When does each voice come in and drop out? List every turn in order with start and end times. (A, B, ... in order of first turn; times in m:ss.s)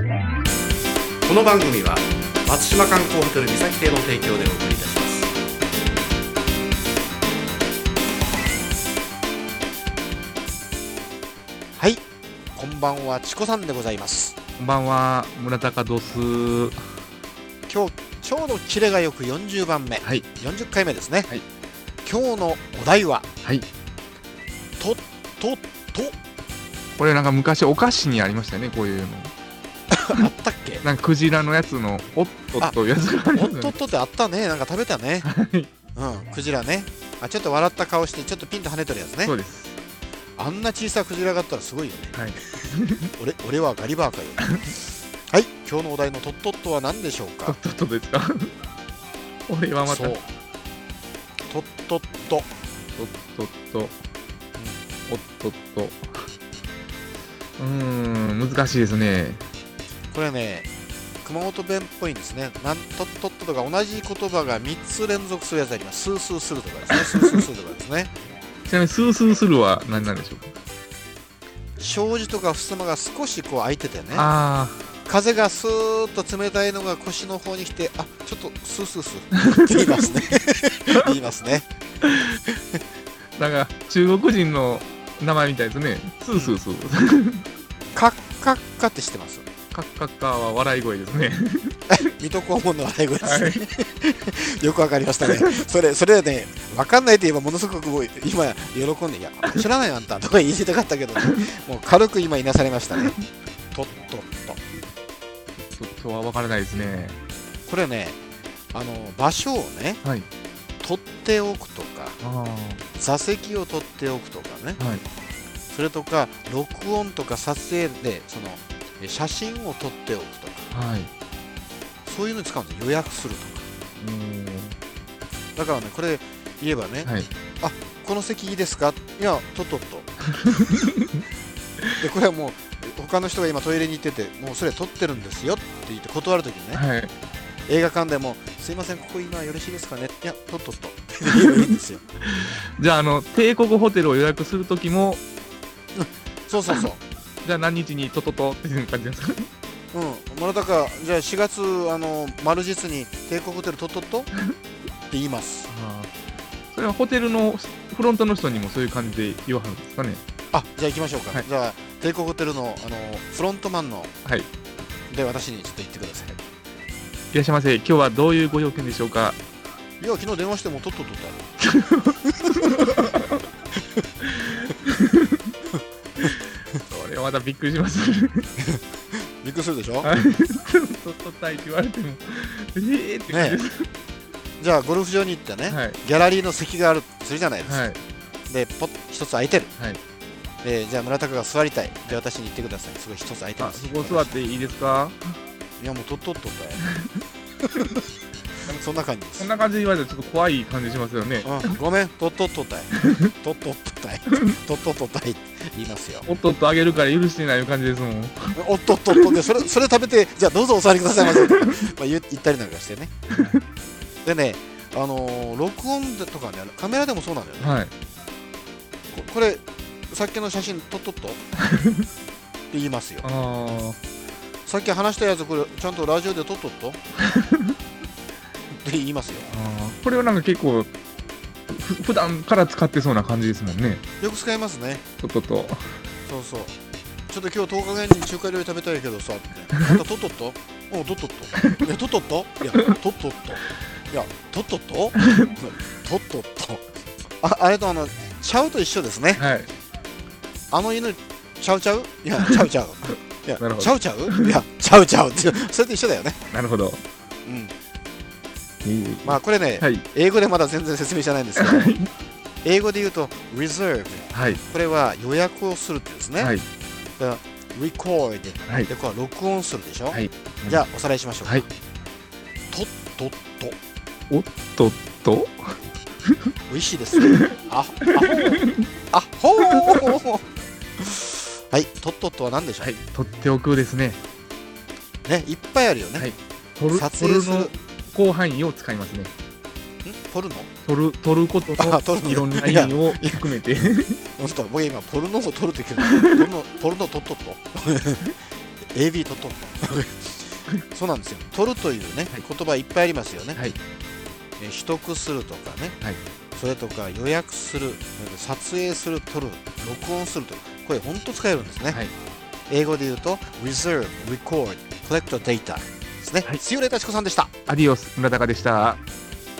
0:01.2-0:05.3 A
0:11.8-0:12.0 B
0:12.5-0:14.4 B
0:14.6-0:16.8 C
0:17.7-0:21.3 B
0:20.0-0:20.3 C
0:22.0-0:23.3 B
0:23.4-0:23.7 C
0:24.8-0:26.1 B
0:27.0-0:29.3 C
0:29.9-0:30.8 B
0:30.8-0:33.7 C
0:33.3-0:35.3 B
0:35.2-0:35.7 C
0:35.9-0:39.4 B
0:39.2-0:39.8 C
0:40.4-0:42.2 B
0:42.1-0:43.1 C
0:43.2-0:44.6 B
0:45.3-0:47.6 B
0:47.5-0:48.5 C
0:49.5-0:50.2 C
0:49.8-0:50.2 B
0:51.5-0:52.4 B
0:53.0-0:54.0 C
0:54.6-0:54.8 B
0:55.0-0:56.3 C
0:57.6-0:59.4 C
1:00.1-1:00.7 B
1:01.2-1:08.1 B
1:06.9-1:07.3 C
1:08.6-1:10.5 C
1:11.8-1:14.3 B
1:14.1-1:14.8 C
1:15.0-1:21.6 B
1:19.3-1:20.1 C
1:22.0-1:22.4 C
1:23.4-1:27.4 C
1:27.9-1:29.5 B
1:29.7-1:32.0 C
1:31.9-1:43.2 B
1:33.2-1:33.6 C
1:35.2-1:35.6 C
1:41.2-1:41.5 C
1:43.7-1:44.6 B
1:45.7-1:47.2 C
1:47.7-1:48.2 B
1:48.7-1:50.0 B
1:50.8-1:52.2 B
1:52.2-1:52.8 C
1:53.0-1:54.8 B
1:54.8-1:55.0 C
1:55.7-2:00.7 B
2:00.7-2:01.1 C
2:02.0-2:03.7 B
2:04.0-2:04.8 C
2:05.6-2:10.1 B
2:10.3-2:11.2 C
2:12.0-2:16.8 B
2:16.7-2:17.1 C
2:17.7-2:22.0 B
2:21.2-2:25.2 C
2:25.9-2:27.0 B
2:27.4-2:29.5 C
2:29.9-2:34.3 B
2:35.1-2:35.7 B
2:35.7-2:36.1 C
2:36.7-2:40.2 C
2:40.5-2:44.1 B
2:45.1-2:46.4 B
2:47.3-2:49.4 C
2:50.0-2:51.4 B
2:51.6-2:53.4 C
2:52.2-2:52.8 B
2:54.2-2:55.5 C
2:56.3-2:58.5 C
2:59.4-3:00.1 B
3:00.0-3:03.9 C
3:03.3-3:03.6 B
3:04.6-3:07.9 B
3:05.7-3:06.0 C
3:07.6-3:08.0 C
3:08.5-3:09.7 B
3:10.6-3:14.3 B
3:13.6-3:15.3 C
3:15.8-3:16.8 B
3:16.8-3:17.2 C
3:18.7-3:19.6 B
3:19.4-3:21.8 C
3:21.4-3:26.3 B
3:22.9-3:23.3 C
3:24.3-3:24.6 C
3:26.3-3:28.6 C
3:28.6-3:33.6 B
3:29.1-3:29.4 C
3:31.2-3:31.8 C
3:33.3-3:33.6 C
3:34.2-3:37.8 B
3:37.6-3:37.9 C
3:39.1-3:41.4 B
3:41.6-3:42.0 C
3:42.7-3:43.3 B
3:43.2-3:44.0 C
3:44.6-3:47.0 B
3:47.2-3:47.7 C
3:48.7-3:49.5 B
3:49.5-3:50.9 C
3:51.7-3:54.0 C
3:54.2-3:55.0 B
3:55.2-3:55.9 C
3:56.2-3:56.7 B
3:57.3-4:06.8 B
3:59.7-4:00.0 C
4:01.5-4:01.9 C
4:05.2-4:05.5 C
4:07.4-4:09.4 B
4:09.3-4:09.7 C
4:10.7-4:16.4 B
4:12.4-4:12.6 C
4:13.6-4:14.6 C
4:16.5-4:17.0 C
4:17.4-4:17.7 B
4:18.8-4:20.0 C
4:19.2-4:22.0 B
4:21.6-4:22.1 C
4:22.6-4:26.5 B
4:24.3-4:24.6 C
4:26.4-4:26.6 C
4:27.2-4:31.6 B
4:30.1-4:30.8 C
4:32.7-4:33.7 B
4:34.3-4:35.8 C
4:36.7-4:40.4 B
4:37.2-4:38.9 C
4:39.6-4:40.1 C
4:41.0-4:42.9 B
4:42.8-4:44.2 C
4:45.2-4:46.3 B
4:46.2-4:49.3 C
4:46.9-4:47.7 B
4:50.0-4:50.7 B
4:50.8-4:54.2 C
4:51.8-4:53.5 B
4:54.4-4:58.3 B
4:56.0-4:56.4 C
4:58.9-5:03.6 B
5:04.6-5:06.0 B
5:06.5-5:12.0 B
5:11.9-5:12.1 C
5:12.7-5:17.5 B
5:17.7-5:19.0 C